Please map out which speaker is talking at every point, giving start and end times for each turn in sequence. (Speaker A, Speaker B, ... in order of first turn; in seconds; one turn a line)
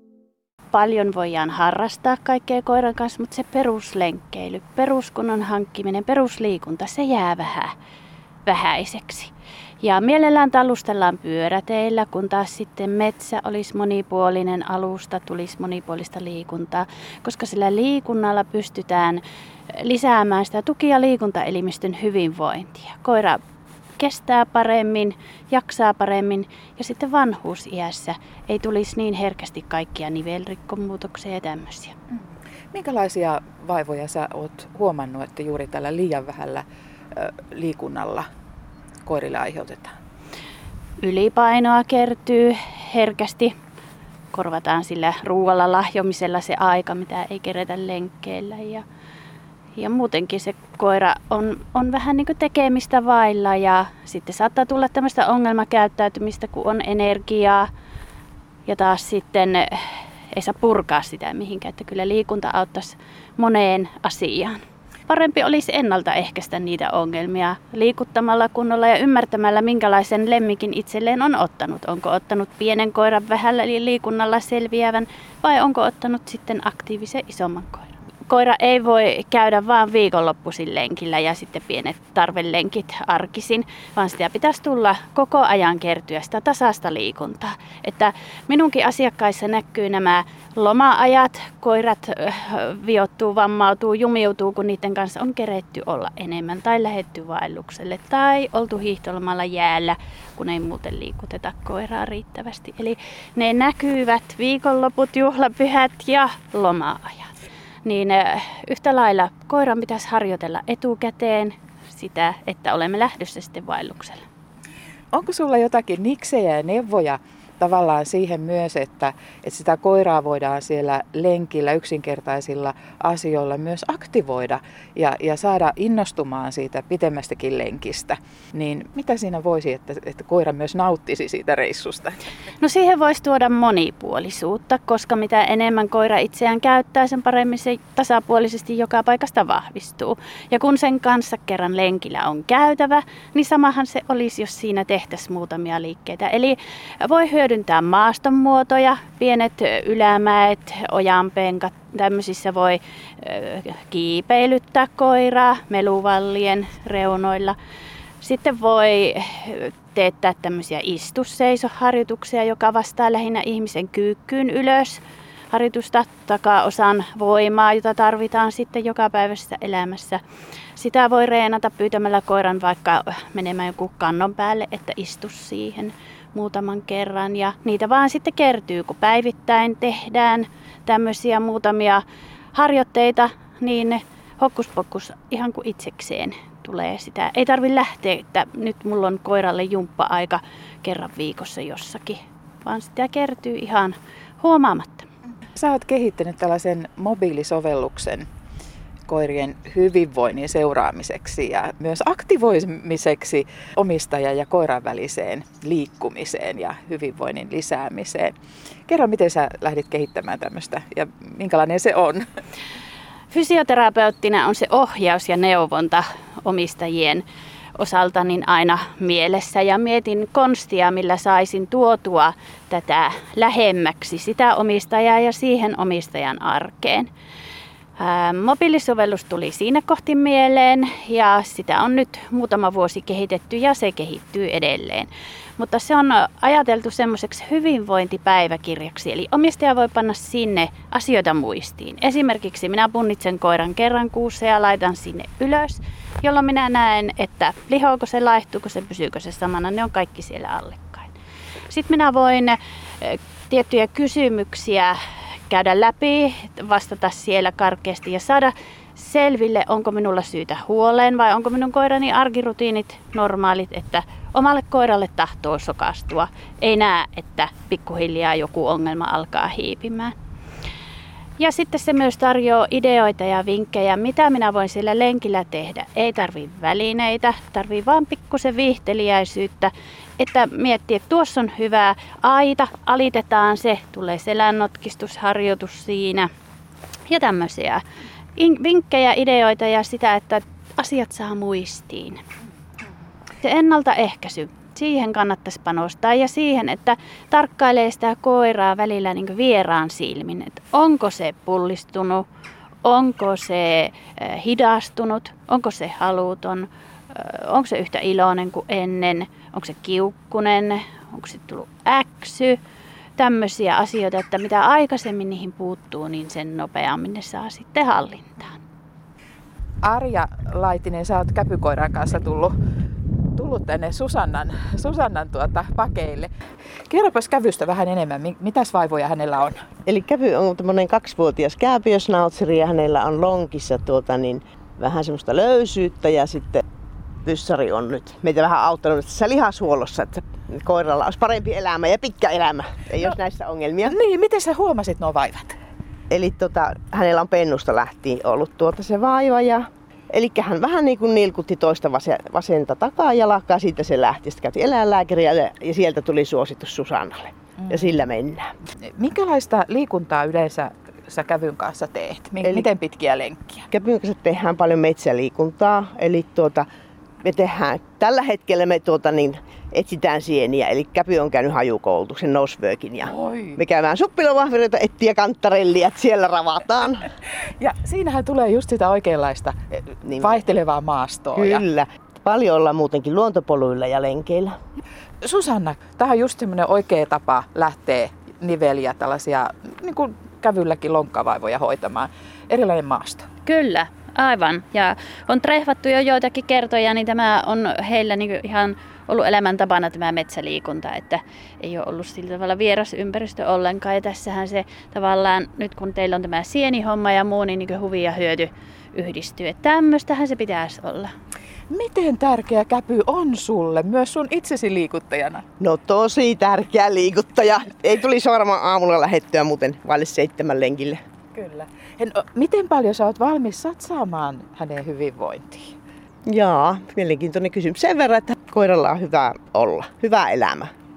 Speaker A: 0.7-7.7
Speaker A: 8.4-19.2
Speaker A: 19.7-23.4
Speaker A: 24.0-31.9
Speaker B: 32.7-38.3
Speaker B: 39.0-39.9
Speaker A: 41.0-43.5
Speaker A: 44.3-48.8
Speaker A: 49.8-57.7
Speaker A: 58.6-114.2
Speaker B: 115.1-132.2
Speaker A: 132.6-157.6
Speaker A: 158.2-170.2
Speaker A: 170.8-182.0
Speaker A: 182.5-195.1
Speaker B: 195.6-198.3
Speaker B: 199.1-208.3
Speaker B: 208.9-212.2
Speaker A: 213.3-217.2
Speaker A: 217.8-227.1
Speaker A: 228.0-251.1
Speaker A: 251.7-254.9
Speaker A: 255.5-270.1
Speaker A: 271.4-286.3
Speaker A: 287.1-287.8
Speaker A: 288.4-292.2
Speaker A: 293.4-302.2
Speaker A: 302.8-312.6
Speaker A: 313.2-318.6
Speaker B: 319.8-322.5
Speaker B: 323.4-326.3
Speaker B: 326.9-329.6
Speaker C: 329.9-336.6
Speaker C: 337.2-343.9
Speaker B: 343.8-345.6
Speaker C: 346.1-358.5
Speaker B: 358.9-363.7
Speaker C: 362.4-362.7
Speaker C: 363.7-366.6
Speaker C: 367.2-377.1
Speaker B: 373.1-373.6
Speaker B: 377.6-381.6
Speaker C: 380.0-380.4
Speaker C: 381.4-384.5
Speaker B: 385.2-393.3
Speaker A: 393.4-411.1
Speaker B: 411.7-415.4
Speaker C: 415.6-421.0
Speaker B: 421.3-425.7
Speaker C: 426.2-430.7